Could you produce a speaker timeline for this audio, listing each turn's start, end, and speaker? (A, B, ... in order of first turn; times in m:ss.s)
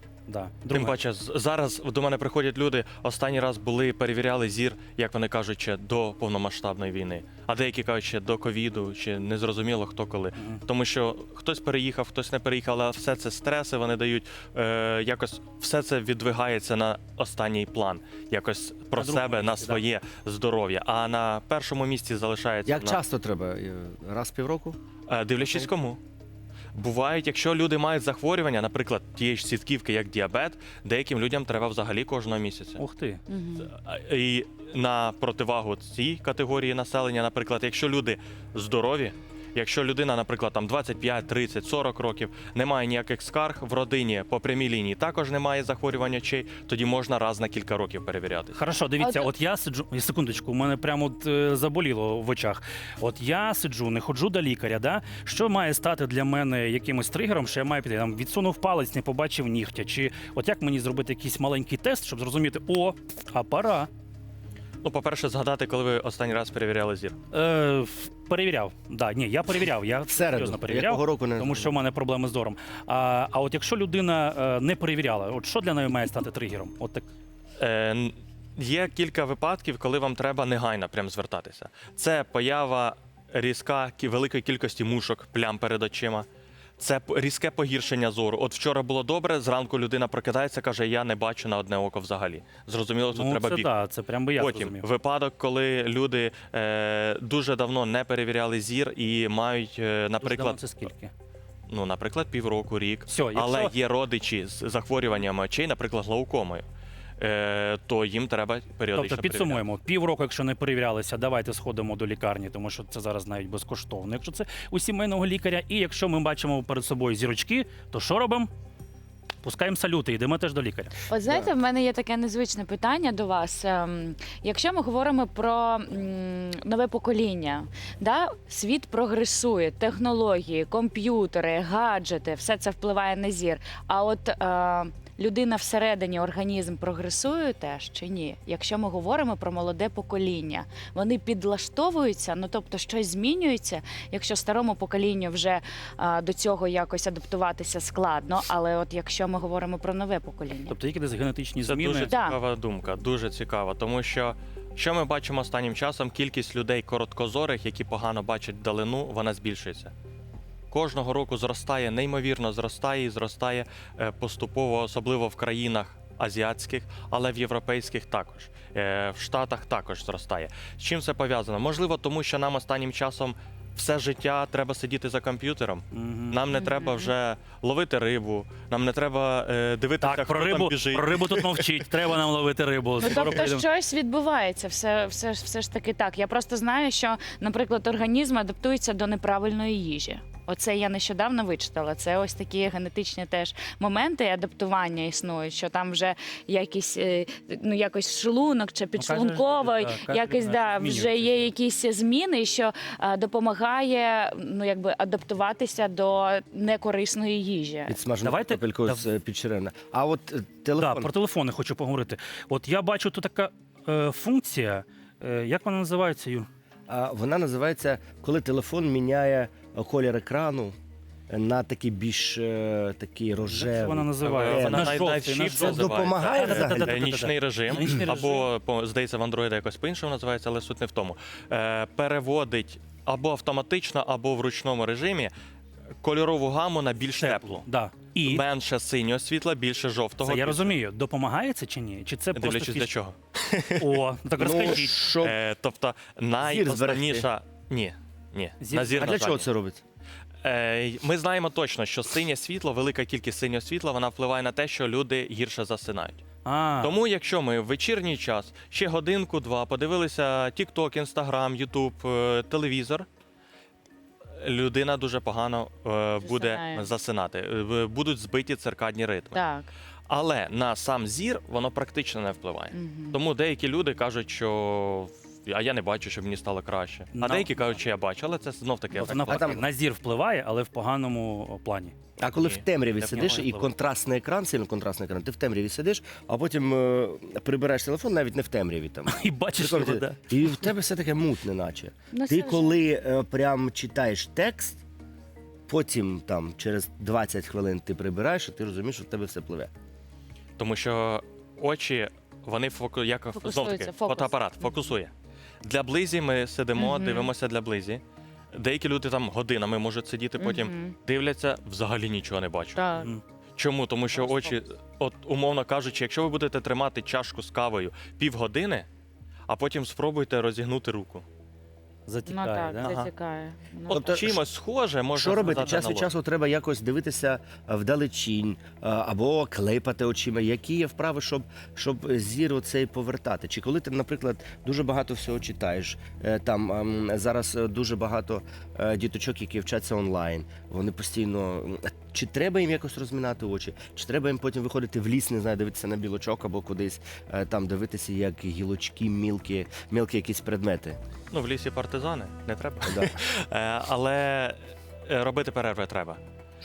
0:00.3-0:01.0 A
0:00.7-0:23.0 B
0:10.4-0:10.6 A
0:19.0-0:19.8 A
0:22.7-0:24.8 C
0:25.1-0:26.0 B
0:26.7-0:32.8 B
0:32.8-0:33.2 A
0:33.3-0:33.7 D
0:33.6-0:48.6 B
0:48.5-1:03.9 A
0:49.0-0:49.3 D
1:04.8-1:07.2 B
1:07.3-1:17.1 A
1:10.1-1:11.7 C
1:17.6-1:26.3 B
1:26.8-1:33.7 B
1:33.1-1:34.9 A
1:34.3-1:40.9 B
1:40.2-1:41.1 A
1:41.7-1:46.7 B
1:43.1-1:43.7 A
1:47.2-1:49.6 B
1:48.9-1:58.5 A
1:59.4-2:00.9 A
2:01.1-2:30.7 D
2:30.7-2:32.1 A
2:31.6-2:39.9 B
2:32.0-2:32.4 D
2:40.7-3:01.7 B
2:55.9-2:56.4 A
2:56.5-2:57.1 D
3:00.0-3:03.6 A
3:03.0-3:27.9 D
3:03.2-3:03.4 B
3:19.0-3:21.5 A
3:27.9-3:31.1 C
3:28.2-3:29.0 A
3:30.8-3:36.5 A
3:36.9-3:40.7 C
3:41.3-3:47.0 C
3:43.4-3:48.5 A
3:44.2-3:55.3 B
3:56.0-3:57.6 B
3:57.2-3:58.4 A
3:58.2-4:00.8 B
4:00.2-4:02.9 A
4:02.3-4:09.5 B
4:03.8-4:05.1 A
4:04.4-4:05.4 C
4:06.4-4:07.3 C
4:08.6-4:09.2 A
4:08.9-4:09.8 C
4:10.4-4:16.2 B
4:16.4-4:17.0 A
4:16.8-4:23.1 B
4:24.4-4:29.4 B
4:26.2-4:26.9 D
4:29.3-4:29.7 D
4:30.1-4:39.6 B
4:32.7-4:33.2 D
4:37.1-4:37.8 A
4:38.9-4:41.9 A
4:39.2-4:39.6 C
4:42.2-4:54.8 C
4:42.4-4:43.4 B
4:43.1-4:43.7 A
4:49.1-4:50.5 A
4:52.1-4:52.8 D
4:55.7-4:59.7 C
5:00.6-5:12.8 B
5:03.3-5:04.8 D
5:06.8-5:07.3 D
5:10.4-5:11.0 D
5:12.8-5:13.1 D
5:13.6-5:18.9 B
5:14.1-5:14.6 D
5:19.5-5:21.2 B
5:22.1-5:22.9 A
5:22.3-5:24.3 D
5:22.8-5:23.1 B
5:23.9-5:24.4 C
5:23.9-5:26.1 B
5:25.1-5:51.0 C
5:51.3-5:56.2 B
5:52.8-5:53.2 C